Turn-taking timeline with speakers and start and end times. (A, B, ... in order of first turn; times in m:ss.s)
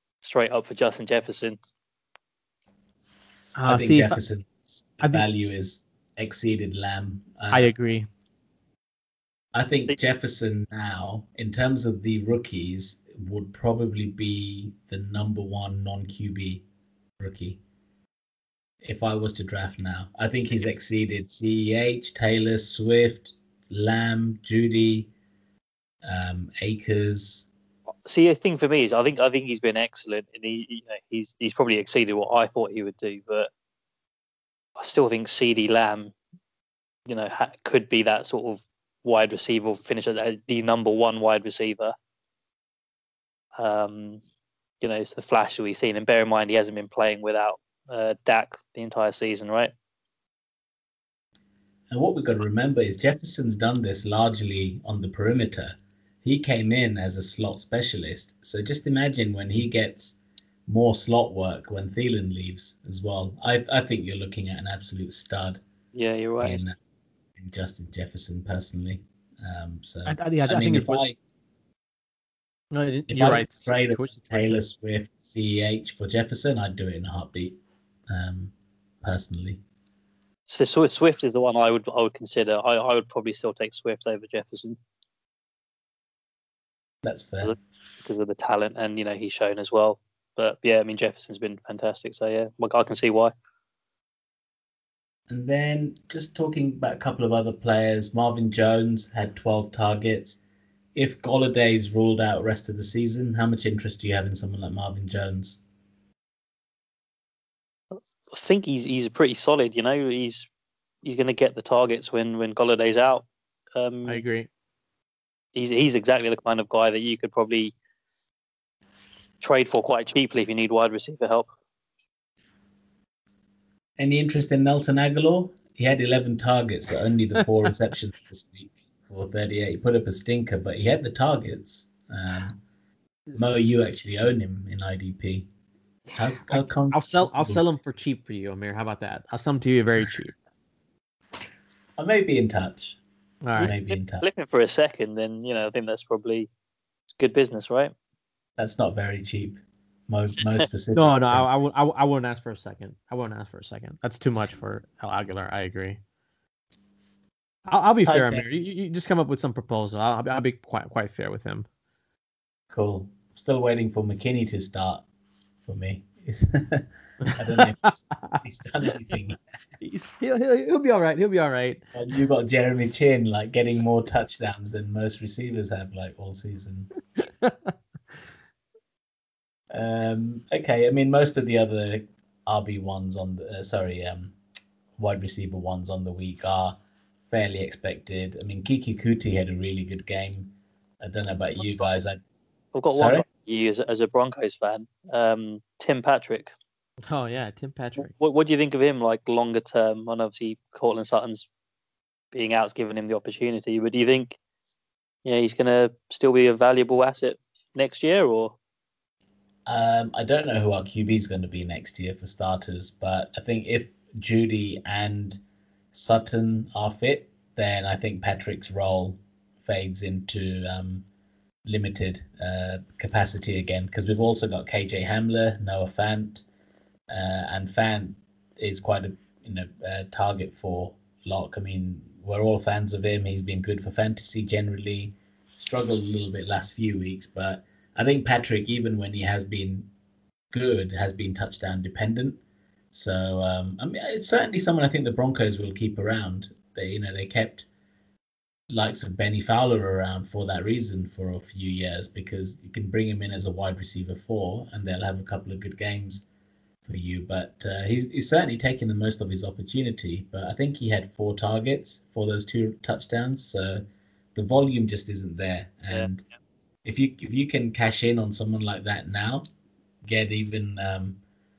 0:00.2-0:01.6 A
0:03.6-0:04.2 B
0:03.7-0:07.7 C
0:05.0-0:05.3 B
0:07.5-0:08.1 B
0:09.5-0:16.6 C
0:17.2-0:17.6 C
0:18.8-0:25.1 C
0:26.0-0:27.5 C
0:28.1-0:33.5 A
0:34.8-0:36.1 A
0:37.1-0:41.9 A
0:43.6-0:44.2 A
0:44.8-0:49.7 A
0:51.9-1:05.6 C
1:05.9-1:06.7 A
1:06.4-1:06.8 C
1:07.4-1:11.2 C
1:10.1-1:11.0 B
1:12.7-1:14.6 B
1:13.1-1:19.6 C
1:20.5-1:24.8 A
1:27.0-1:27.6 C
1:27.4-1:33.3 A
1:35.3-1:40.4 C
1:41.0-1:45.6 C
1:47.9-1:50.5 A
1:51.0-1:54.2 A
1:54.1-1:54.5 B
1:55.6-1:57.7 A
1:59.4-2:01.5 A
2:04.0-2:12.6 C
2:13.4-2:15.5 C
2:16.1-2:20.3 B
2:16.2-2:17.6 C
2:22.0-2:23.0 C
2:23.4-2:24.0 B
2:23.6-2:24.3 C
2:24.2-2:26.5 A
2:27.2-2:27.9 A
2:28.6-2:31.5 C
2:30.9-2:36.0 B
2:37.7-2:41.7 B
2:38.0-2:38.5 C
2:42.7-2:45.0 C
2:45.6-2:49.4 C
2:47.2-2:48.4 B
2:49.8-2:51.8 B
2:52.0-2:56.9 C
2:57.2-2:57.7 B
2:59.7-3:04.4 C
3:05.0-3:06.8 C
3:07.3-3:12.2 C
3:12.8-3:16.5 A
3:12.9-3:13.3 C
3:17.1-3:18.1 B
3:18.0-3:21.5 A
3:22.3-3:24.4 A
3:25.2-3:28.6 A
3:29.7-3:35.4 C
3:35.9-3:41.0 C
3:41.6-3:46.4 C
3:47.1-3:59.9 C
4:00.5-4:02.4 C
4:02.9-4:07.7 C
4:08.7-4:16.3 C
4:16.8-4:23.8 C
4:24.4-4:26.2 C
4:26.8-4:29.4 C
4:30.0-4:31.2 C